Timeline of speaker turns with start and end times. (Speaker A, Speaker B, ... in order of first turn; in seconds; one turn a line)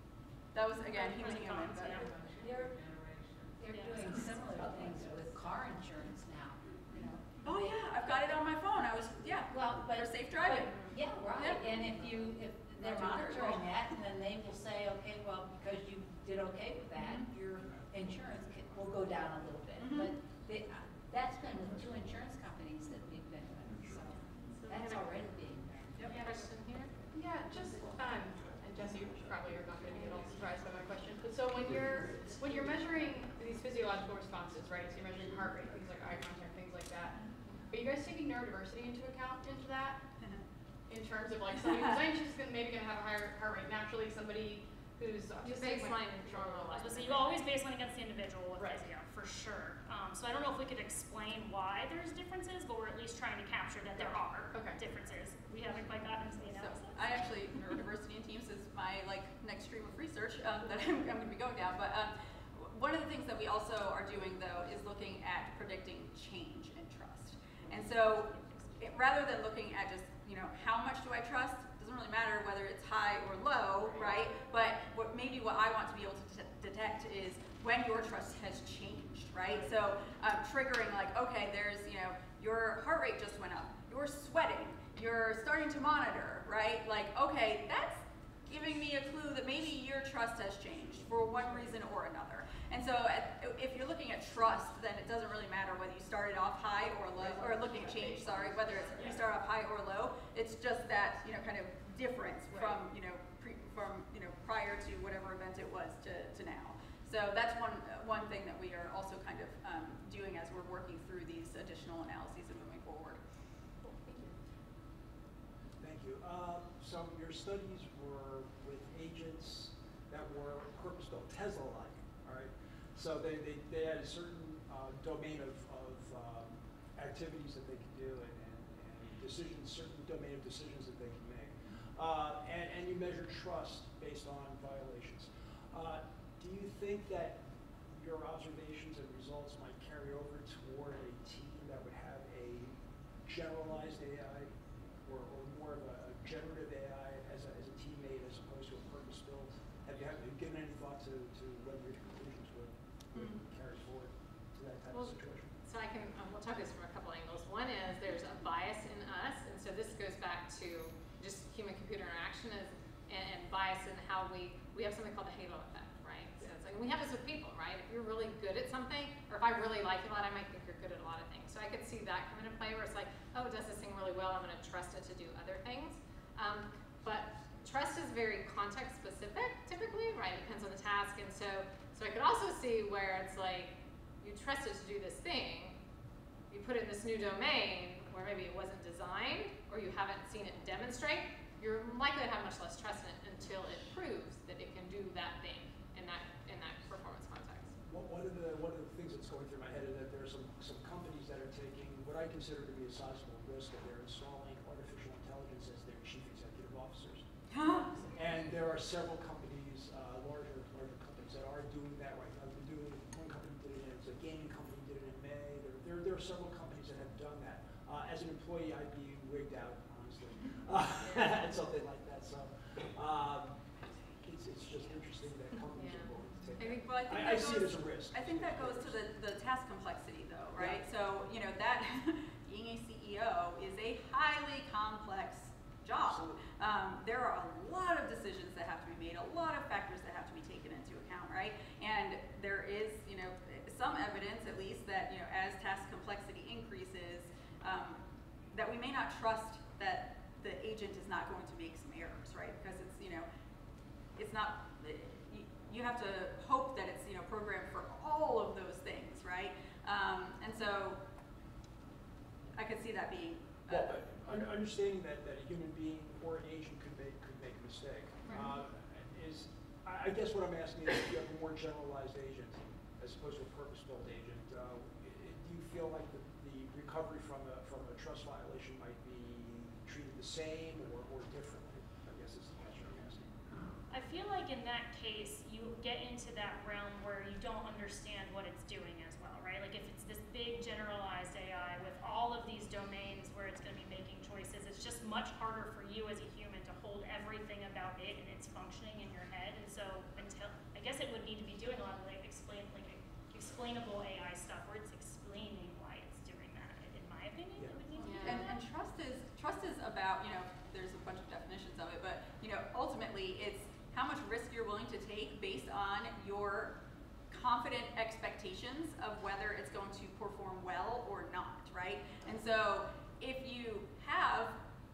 Speaker A: 0.5-2.1
Speaker B: 0.9-2.1
Speaker C: 2.1-8.1
Speaker B: 3.7-4.0
Speaker A: 7.4-10.8
Speaker C: 9.5-26.3
Speaker A: 12.8-13.6
Speaker A: 17.0-17.3
Speaker A: 19.8-20.1
Speaker D: 24.7-25.0
Speaker D: 26.1-26.9
Speaker E: 27.1-40.0
Speaker E: 40.9-46.8
Speaker A: 41.6-42.0
Speaker D: 45.4-47.5
Speaker B: 46.7-57.0
Speaker E: 48.6-48.8
Speaker E: 54.0-54.8
Speaker A: 56.5-113.2
Speaker B: 68.3-68.6
Speaker B: 98.9-99.2
Speaker E: 113.8-114.3
Speaker F: 115.8-155.5
Speaker D: 154.9-185.8
Speaker D: 186.5-197.8
Speaker F: 197.8-207.2
Speaker A: 207.5-208.0
Speaker F: 208.0-223.7
Speaker F: 224.2-229.0
Speaker D: 225.8-227.7
Speaker A: 226.9-248.0
Speaker F: 230.6-230.8
Speaker F: 236.0-236.4
Speaker A: 248.5-253.3
Speaker A: 254.2-261.0
Speaker A: 262.5-264.1
Speaker F: 263.7-283.3
Speaker B: 283.9-308.6
Speaker F: 307.6-308.2
Speaker D: 308.0-308.5
Speaker A: 308.2-316.7
Speaker A: 317.3-324.5